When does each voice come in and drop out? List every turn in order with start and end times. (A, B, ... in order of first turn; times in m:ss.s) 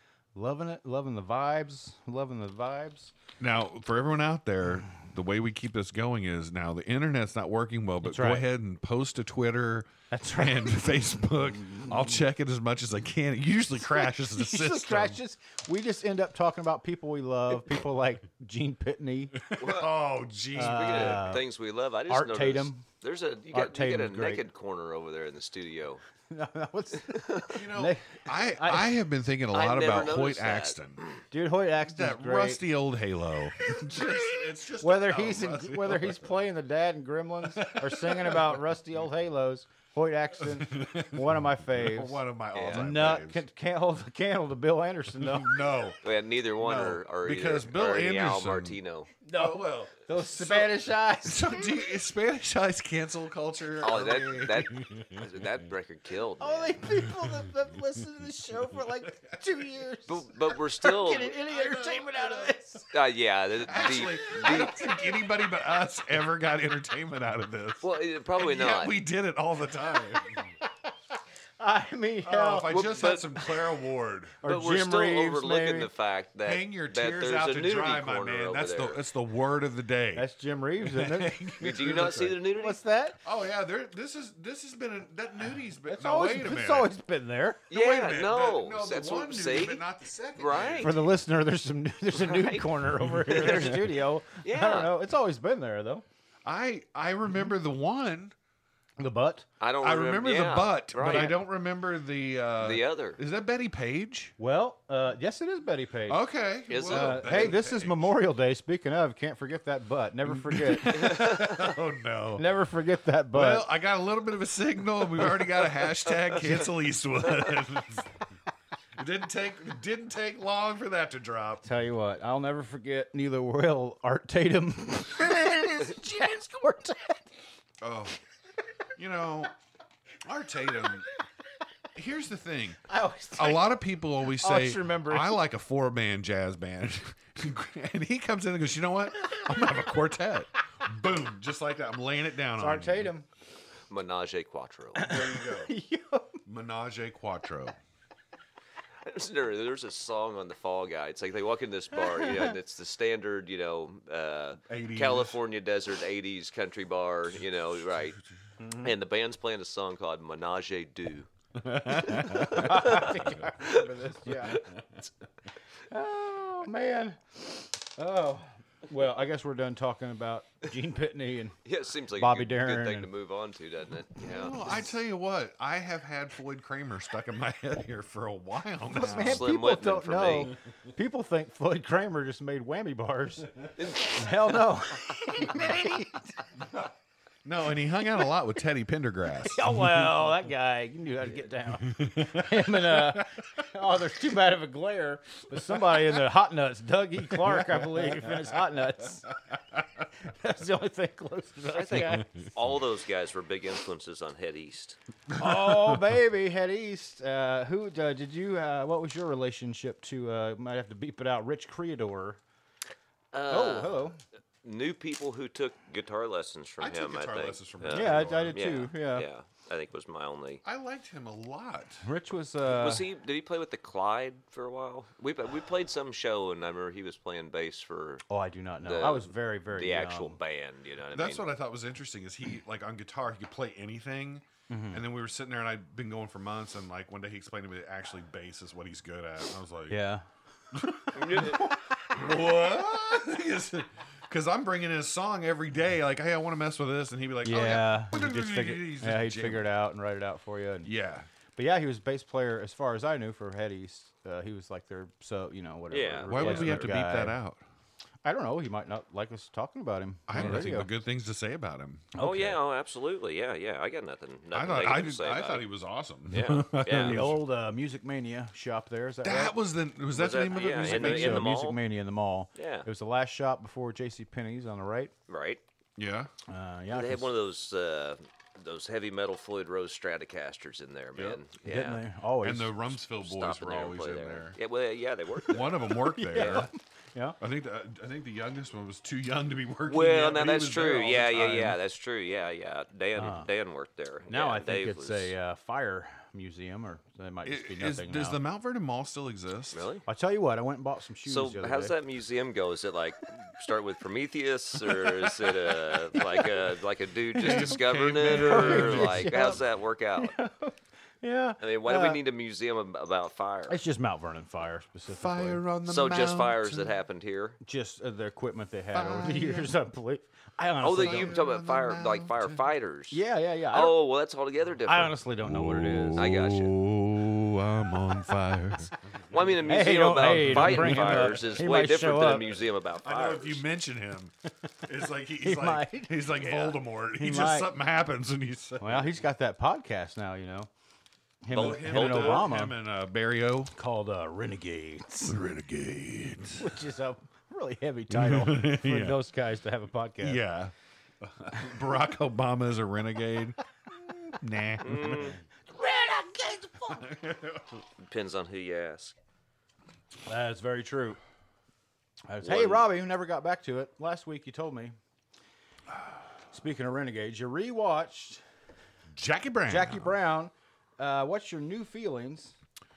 0:00.3-0:03.1 A
0:03.4-0:15.2 B
0:08.0-0:08.5 A
0:10.1-0:12.2 A
0:13.8-0:19.4 A
0:19.4-0:21.2 B
0:19.6-0:19.9 C
0:20.5-0:21.4 A
0:20.6-0:26.0 C
0:22.1-0:22.8 A
0:23.5-0:24.4 A
0:26.3-0:28.9 A
0:27.1-0:27.5 C
0:27.5-0:31.0 B
0:29.5-0:31.2 C
0:31.3-0:32.6 A
0:31.9-0:36.4 B
0:34.8-0:45.6 A
0:37.5-0:38.6 B
0:40.4-0:43.4 B
0:42.5-0:42.9 C
0:45.1-0:46.0 B
0:46.0-0:49.1 C
0:46.6-0:48.8 B
0:49.2-0:51.7 A
0:49.3-0:55.2 B
0:53.8-0:56.8 C
0:56.4-1:02.9 A
0:57.2-0:57.4 B
1:00.1-1:01.4 C
1:01.5-1:02.5 B
1:02.9-1:04.9 C
1:03.6-1:10.5 B
1:07.8-1:09.0 C
1:11.6-1:12.7 A
1:12.2-1:14.4 B
1:12.7-1:13.3 C
1:14.4-1:15.9 A
1:14.4-1:19.0 C
1:16.4-1:22.4 B
1:20.1-1:21.4 A
1:21.6-1:22.8 C
1:22.4-1:23.2 A
1:23.2-1:26.9 B
1:25.9-1:27.6 A
1:27.7-1:29.8 C
1:27.7-1:31.1 B
1:30.4-1:31.0 C
1:30.8-1:36.0 A
1:32.1-1:32.7 C
1:33.2-1:33.7 B
1:33.2-1:34.9 C
1:36.4-1:38.3 B
1:39.0-1:39.4 A
1:39.6-1:41.4 C
1:39.8-1:44.3 B
1:41.1-1:41.3 A
1:42.6-1:43.2 C
1:44.4-1:46.2 A
1:46.1-1:48.1 B
1:46.7-1:47.5 C
1:46.8-1:51.3 A
1:50.3-1:52.5 B
1:51.1-1:51.4 C
1:52.4-1:53.7 A
1:53.3-1:58.1 B
1:59.0-2:01.6 B
2:01.6-2:07.2 A
2:07.8-2:08.2 B
2:09.0-2:09.5 B
2:10.2-2:11.0 B
2:11.9-2:12.8 B
2:12.9-2:13.8 A
2:13.4-2:23.1 B
2:14.4-2:15.4 A
2:22.6-2:23.2 A
2:23.9-2:25.2 C
2:25.0-2:26.4 A
2:25.0-2:25.7 B
2:26.4-2:27.8 B
2:29.0-2:38.2 C
2:32.2-2:32.5 A
2:34.7-2:35.4 B
2:38.8-2:41.3 C
2:41.6-2:42.8 B
2:42.0-2:44.6 A
2:42.1-2:43.8 C
2:45.9-2:51.5 A
2:51.6-2:54.6 C
2:52.2-2:53.1 A
2:54.2-2:59.5 B
2:58.9-3:06.3 A
2:59.0-3:00.5 C
3:03.8-3:04.3 C
3:07.4-3:09.8 B
3:09.4-3:19.3 A
3:11.9-3:13.3 B
3:17.4-3:18.4 B
3:20.2-3:22.2 A
3:21.7-3:25.0 C
3:25.3-3:26.0 B
3:25.4-3:32.4 A
3:33.3-3:34.1 C
3:33.5-3:34.2 A
3:34.6-3:40.6 C
3:36.8-3:38.6 B
3:37.9-3:39.2 A
3:40.6-3:42.0 B
3:42.0-3:43.0 A
3:42.6-3:48.2 C
3:48.3-3:50.4 A
3:48.8-3:51.5 C
3:51.1-4:00.0 B
3:54.7-3:55.0 A
3:59.9-4:00.2 A
4:00.7-4:09.7 B
4:01.1-4:01.7 C
4:07.4-4:10.9 A
4:10.8-4:11.3 B
4:11.6-4:17.4 A
4:15.9-4:16.9 C
4:16.3-4:17.6 B
4:18.2-4:20.9 A
4:20.3-4:22.1 B
4:22.1-4:22.6 A
4:22.2-4:25.7 C
4:24.5-4:27.4 B
4:26.3-4:27.3 C
4:26.9-4:29.6 A
4:29.2-4:31.5 B
4:30.1-4:31.8 C
4:30.8-4:35.1 A
4:32.5-4:32.9 C
4:35.3-4:35.6 C
4:36.0-4:36.3 B
4:36.5-4:37.3 A
4:36.9-4:42.0 C
4:41.6-4:42.8 A
4:42.4-4:44.6 B
4:43.2-4:45.8 C
4:45.5-4:46.7 B
4:45.9-4:47.4 A
4:46.3-4:46.7 C
4:47.4-4:51.8 B
4:49.9-4:55.3 C
4:53.2-4:53.5 A
4:54.3-4:58.4 A
4:57.4-4:59.8 B
4:59.7-5:00.0 C
5:00.0-5:01.9 A
5:01.2-5:10.3 C
5:07.3-5:09.6 B
5:07.3-5:09.6 A
5:10.2-5:12.2 A
5:11.6-5:13.8 C
5:13.7-5:15.6 A
5:15.1-5:16.9 B
5:15.8-5:17.6 C
5:17.6-5:21.4 A
5:18.9-5:19.7 B
5:20.8-5:23.2 C
5:20.9-5:22.7 B
5:23.1-5:23.9 A
5:23.7-5:25.2 C
5:24.8-5:26.3 A
5:25.4-5:31.6 B
5:26.1-5:26.8 C
5:29.3-5:33.6 C
5:29.6-5:32.5 A
5:33.0-5:39.2 B
5:35.4-5:36.2 A
5:36.4-5:36.7 C
5:37.1-5:37.7 A
5:38.8-5:40.7 A
5:41.4-5:42.8 A
5:41.5-5:42.5 C
5:41.5-5:43.7 B
5:43.7-5:45.4 A
5:45.2-5:46.7 B
5:46.6-5:50.4 A
5:48.1-5:49.2 B
5:50.2-5:53.6 B
5:54.2-5:55.4 B
5:54.8-5:55.4 C
5:55.0-5:57.0 A
5:56.9-5:57.8 B
5:58.0-5:59.1 C
6:00.3-6:01.2 A
6:02.3-6:05.0 A
6:02.4-6:02.8 C
6:06.5-6:08.4 A
6:09.1-6:10.1 B
6:09.7-6:12.6 A